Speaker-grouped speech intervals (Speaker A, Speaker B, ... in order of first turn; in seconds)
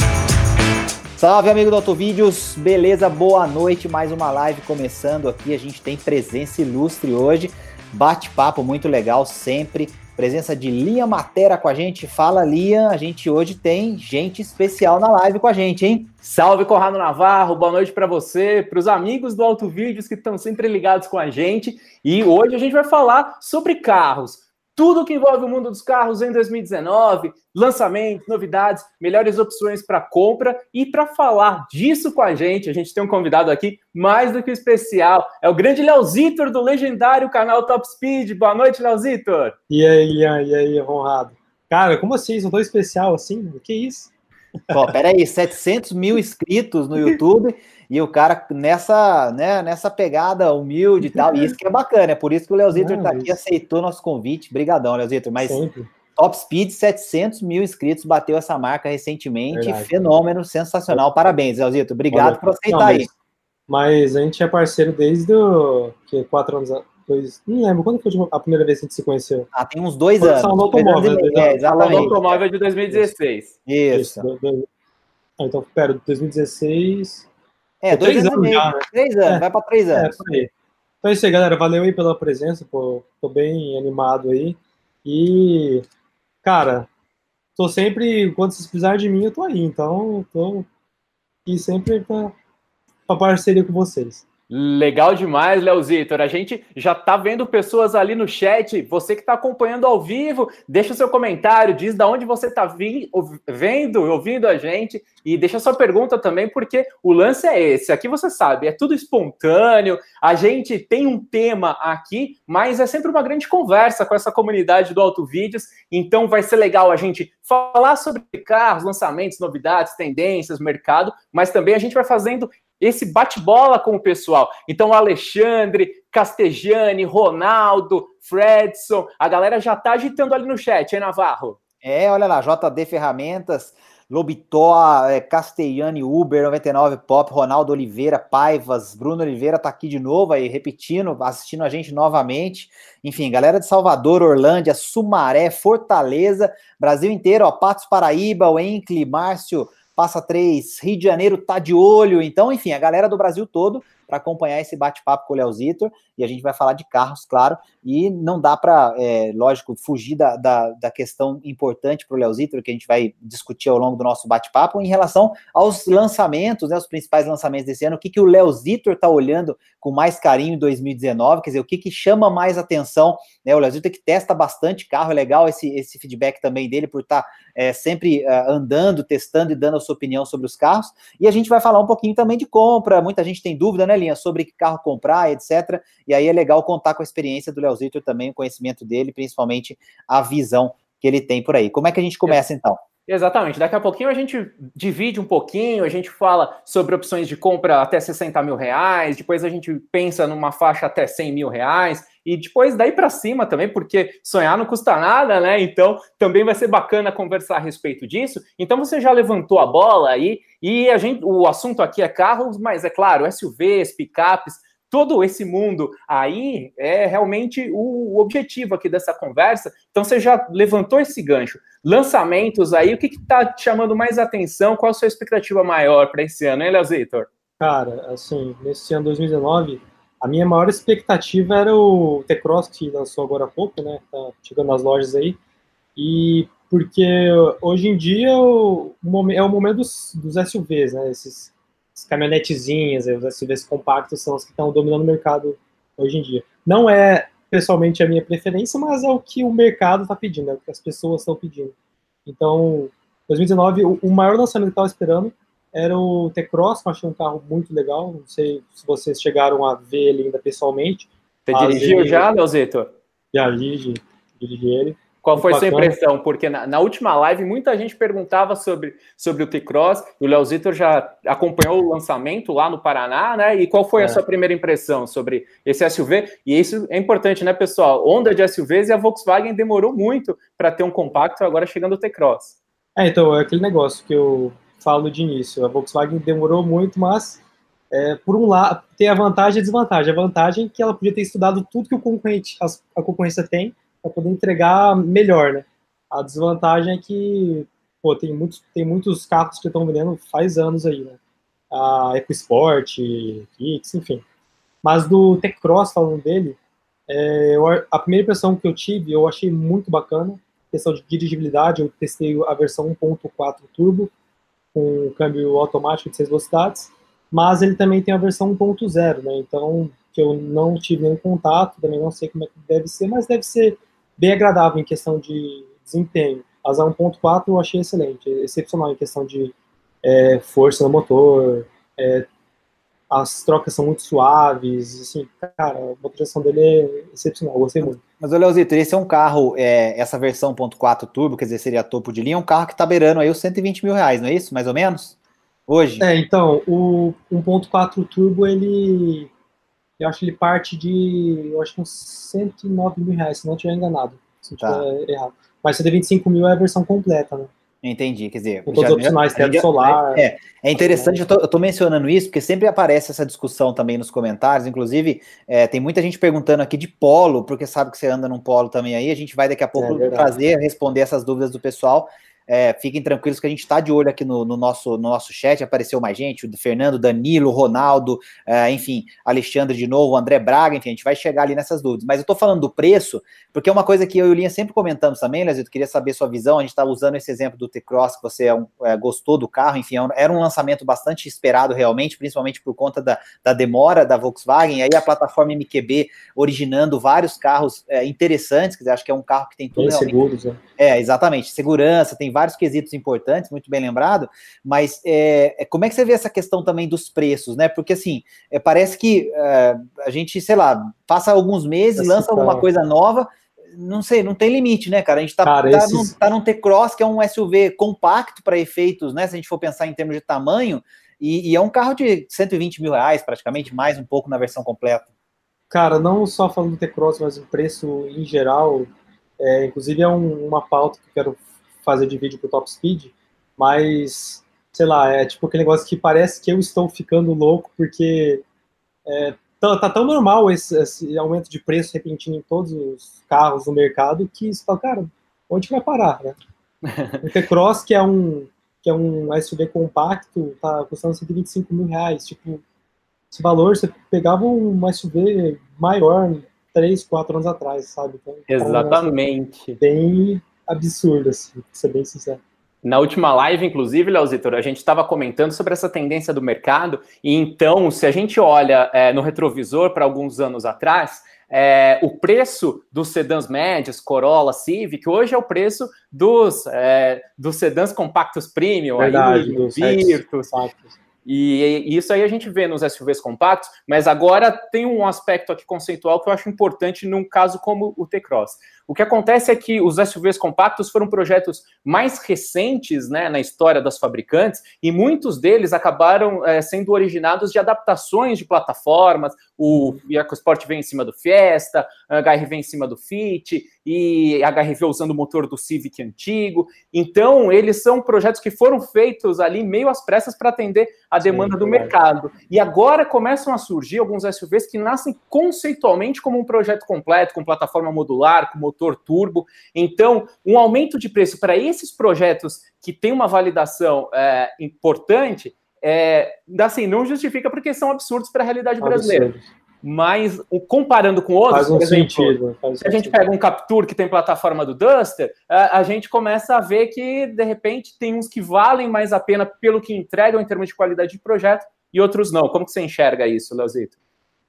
Speaker A: 1.2-16.1, 44.7-55.6, 56.2-63.1, 69.5-72.4, 73.7-74.2, 77.8-80.2, 131.8-192.8, 337.8-345.1, 345.7-346.0, 354.6-354.8, 357.8-400.1, 400.8-425.1
Speaker B: 16.2-39.5, 71.7-73.5, 94.5-131.6, 193.1-227.3, 261.5-262.9, 265.2-282.5, 446.8-447.2, 458.5-459.8, 462.8-480.5, 481.2-529.3, 529.8-543.9
Speaker C: 39.7-44.1, 51.1-51.5, 52.7-53.4, 55.4-55.9, 59.5-59.9, 62.1-63.1, 63.7-69.5, 70.2-72.1, 73.9-74.7, 75.4-77.3, 77.9-80.5, 81.0-85.8, 86.4-86.9, 87.6-90.7, 91.5-92.3, 93.1-94.2, 227.6-235.4, 235.9-251.7, 252.2-262.3, 263.3-265.9, 282.9-287.4, 287.9-301.2, 301.7-304.2, 304.8-314.1, 314.7-332.3, 333.1-338.0, 346.0-349.3, 350.0-357.5, 358.7-360.2, 360.8-361.2, 369.8-370.3, 399.7-400.6, 412.0-412.6, 415.4-416.1, 425.7-438.4, 439.1-446.4, 447.2-452.6, 453.3-459.1, 459.8-462.4, 479.0-480.9, 499.7-500.0, 511.2-511.9, 528.8-529.4, 531.5-533.1